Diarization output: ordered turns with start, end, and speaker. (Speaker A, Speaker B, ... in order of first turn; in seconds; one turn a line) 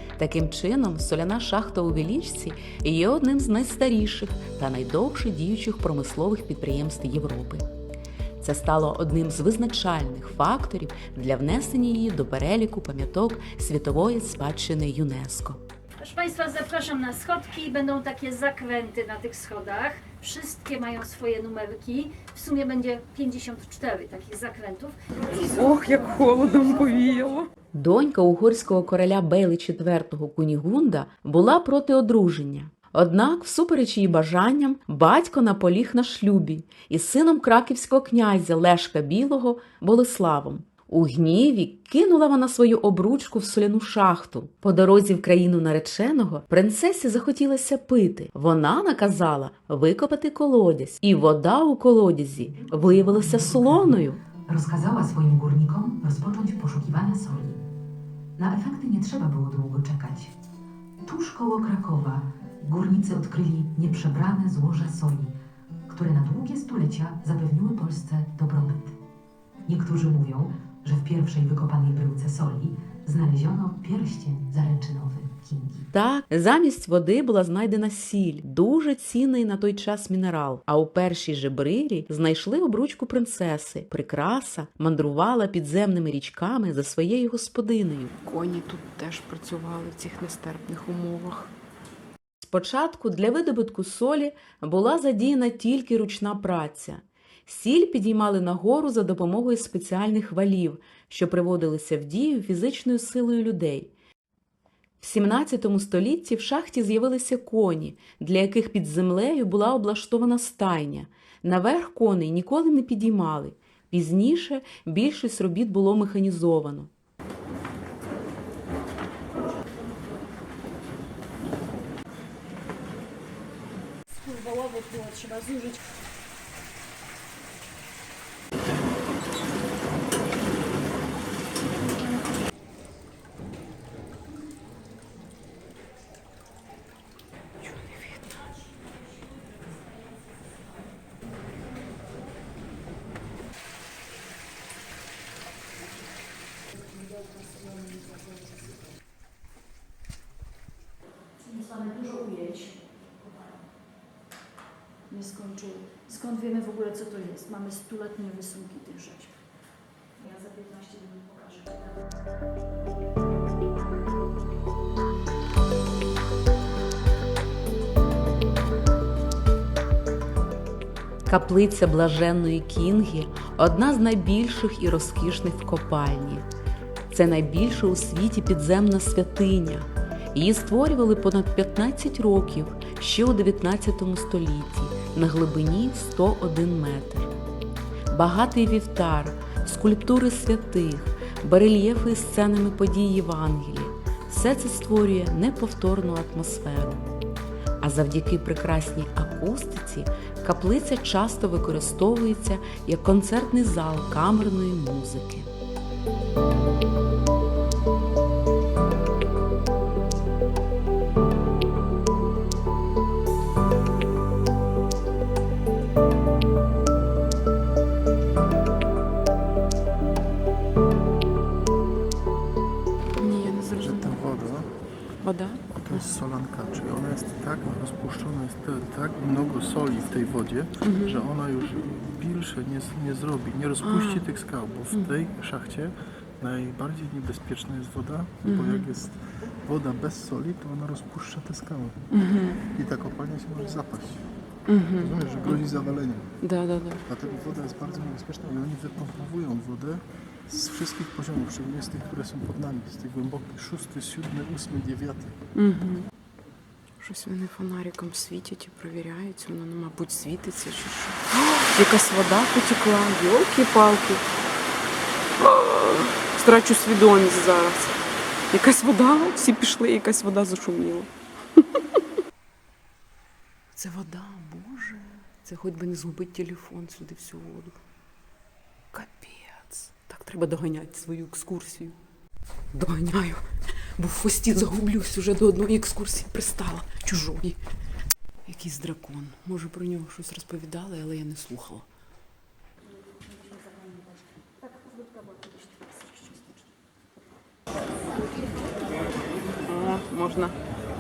Speaker A: 0.2-7.6
Speaker A: 8.4-15.6
Speaker B: 16.0-24.9
Speaker C: 25.3-27.5
Speaker A: 27.7-54.2
Speaker D: 52.6-57.6
Speaker D: 58.4-60.3
Speaker D: 61.0-65.3
Speaker D: 65.9-68.9
Speaker D: 69.7-75.9
Speaker A: 75.9-88.1
Speaker C: 88.2-91.5
Speaker A: 92.4-103.9
Speaker A: 105.0-116.9
Speaker B: 124.1-125.8
Speaker B: 147.1-148.4
Speaker B: 151.4-153.0
Speaker B: 155.1-159.4
Speaker B: 160.2-162.0
Speaker A: 171.2-176.4
Speaker A: 177.1-187.3
Speaker A: 188.1-197.0
Speaker A: 197.8-205.5
Speaker C: 223.2-224.1
Speaker E: 223.8-224.7
Speaker C: 225.2-226.1
Speaker E: 225.7-242.0
Speaker C: 230.8-231.2
Speaker C: 233.8-234.3
Speaker C: 238.4-238.9
Speaker C: 242.1-242.6
Speaker E: 242.7-244.3
Speaker C: 244.7-245.2
Speaker E: 245.0-246.3
Speaker C: 246.4-247.0
Speaker E: 247.0-255.4
Speaker C: 255.5-256.1
Speaker C: 257.0-264.2
Speaker C: 265.4-268.0
Speaker C: 268.5-271.6
Speaker C: 273.8-277.8
Speaker C: 278.9-281.9
Speaker C: 282.7-283.4
Speaker C: 283.9-287.6
Speaker C: 288.4-291.8
Speaker B: 293.6-293.9
Speaker B: 295.3-296.3
Speaker C: 299.6-300.5